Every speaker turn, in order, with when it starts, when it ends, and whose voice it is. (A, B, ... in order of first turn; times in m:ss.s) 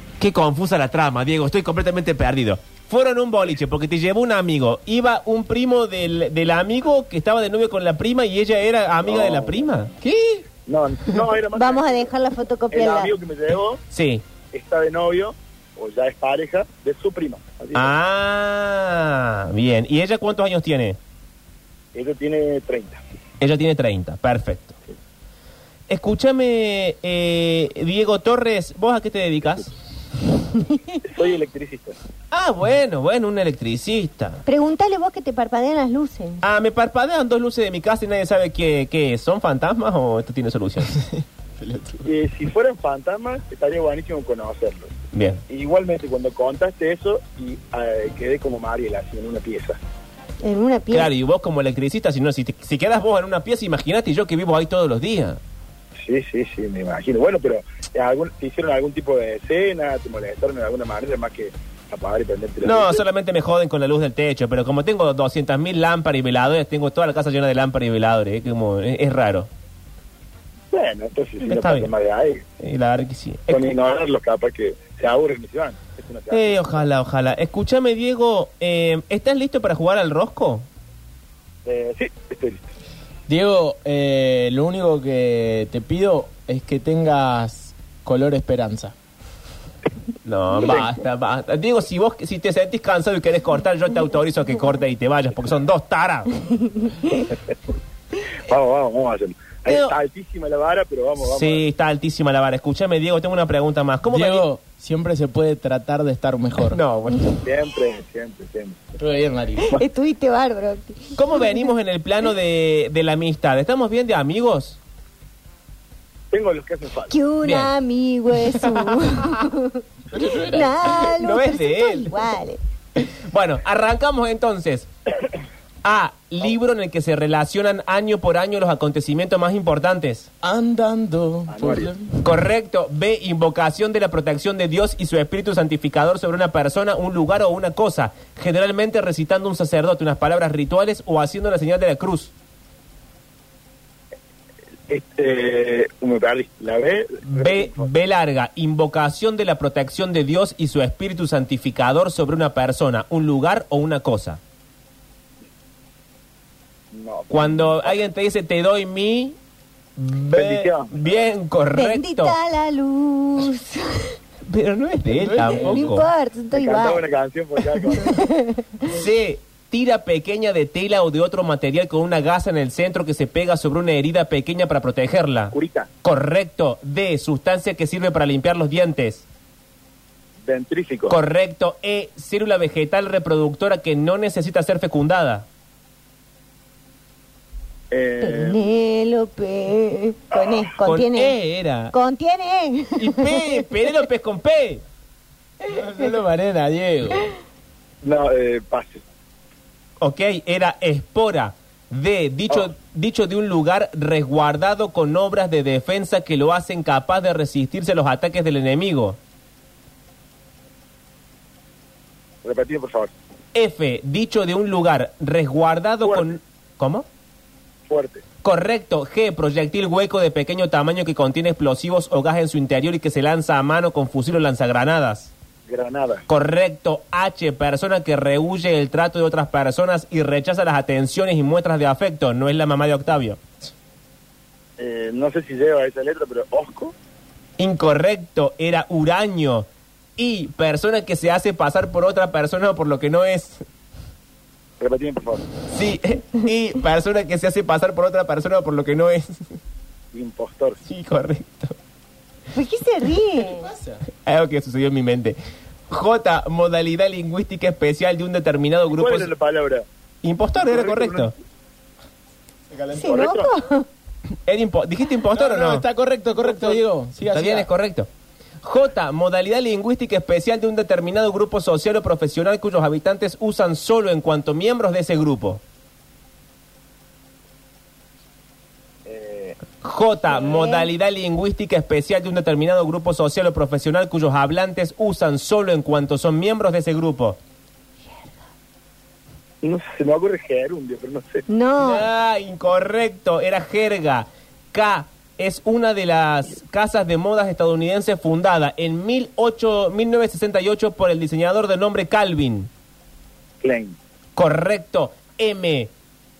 0:00.2-0:10.4 A
0:09.0-0:09.7 B
0:10.6-0:12.1 B
0:11.5-0:13.1 C
0:12.7-0:13.8 B
0:13.9-0:14.2 A
0:14.5-0:17.9 B
0:17.7-0:21.0 A
0:21.9-0:23.0 B
0:23.4-0:24.7 A
0:25.9-0:29.7 A
0:31.0-0:32.0 B
0:32.3-0:34.4 A
0:34.5-0:36.4 C
0:36.4-0:41.0 A
0:41.1-0:42.1 D
0:42.0-0:44.9 B
0:45.1-0:45.4 A
0:45.5-0:49.8 B
0:50.4-0:51.1 C
0:50.9-0:55.4 A
0:56.0-1:03.0 B
1:02.6-1:09.5 A
1:10.7-1:12.4 B
1:11.4-1:11.9 A
1:12.6-1:13.7 A
1:13.5-1:16.9 B
1:16.3-1:20.6 A
1:21.6-1:22.7 B
1:23.3-1:28.9 D
1:30.2-1:36.3 A
1:30.6-1:30.9 B
1:36.9-1:37.2 C
1:38.4-1:41.6 B
1:39.6-1:39.9 A
1:41.2-1:44.4 A
1:44.0-1:46.8 D
1:46.7-1:47.4 A
1:47.4-1:48.8 B
1:49.0-1:49.8 D
1:49.7-1:51.5 C
1:51.2-1:54.8 A
1:56.3-1:57.1 B
1:57.1-2:02.6 C
1:57.4-1:57.7 A
1:58.5-1:59.4 A
2:00.1-2:00.8 D
2:00.9-2:02.2 A
2:03.3-2:04.9 A
2:05.8-2:10.3 A
2:10.4-2:12.2 D
2:11.5-2:11.9 B
2:12.2-2:22.3 A
2:24.9-2:27.9 B
2:27.2-2:34.4 A
2:36.9-2:38.0 B
2:37.3-2:39.4 A
2:40.0-2:42.4 A
2:40.3-2:41.2 B
2:41.7-2:44.2 C
2:44.4-2:46.1 A
2:45.1-2:45.9 D
2:45.5-2:47.0 C
2:46.5-2:48.2 B
2:47.9-2:48.9 C
2:48.9-2:59.2 A
2:55.5-2:55.9 B
3:00.4-3:01.2 B
3:01.1-3:05.4 A
3:07.9-3:08.6 B
3:08.2-3:11.3 C
3:10.8-3:11.9 A
3:11.9-3:13.6 C
3:13.0-3:14.8 A
3:15.7-3:17.3 D
3:18.0-3:19.0 B
3:20.0-3:29.2 A
3:32.4-3:33.1 B
3:33.5-3:37.0 A
3:36.0-3:36.4 B
3:37.9-3:38.2 B
3:38.4-3:45.3 A
3:45.7-3:46.2 B
3:46.3-3:53.4 A
3:54.8-3:56.9 B
3:57.6-4:03.6 A
4:04.8-4:05.4 B
4:05.7-4:09.4 A
4:10.1-4:10.8 B
4:10.8-4:11.7 A
4:12.5-4:13.7 C
4:13.4-4:14.0 D
4:14.2-4:15.4 A
4:15.9-4:19.3 A
4:18.9-4:19.8 B
4:20.2-4:21.3 A
4:20.6-4:21.3 B
4:22.7-4:23.1 D
4:22.9-4:23.9 C
4:23.0-4:23.5 B
4:24.4-4:25.8 A
4:25.3-4:27.7 D
4:26.5-4:26.7 B
4:27.3-4:28.1 A
4:28.6-4:35.6 A
4:39.0-4:39.6 B
4:39.8-4:47.4 A
4:40.3-4:40.9 C
4:49.6-4:51.4 B
4:51.5-4:52.0 C
4:51.8-5:02.7 A
5:03.6-5:04.0 B
5:04.4-5:05.9 A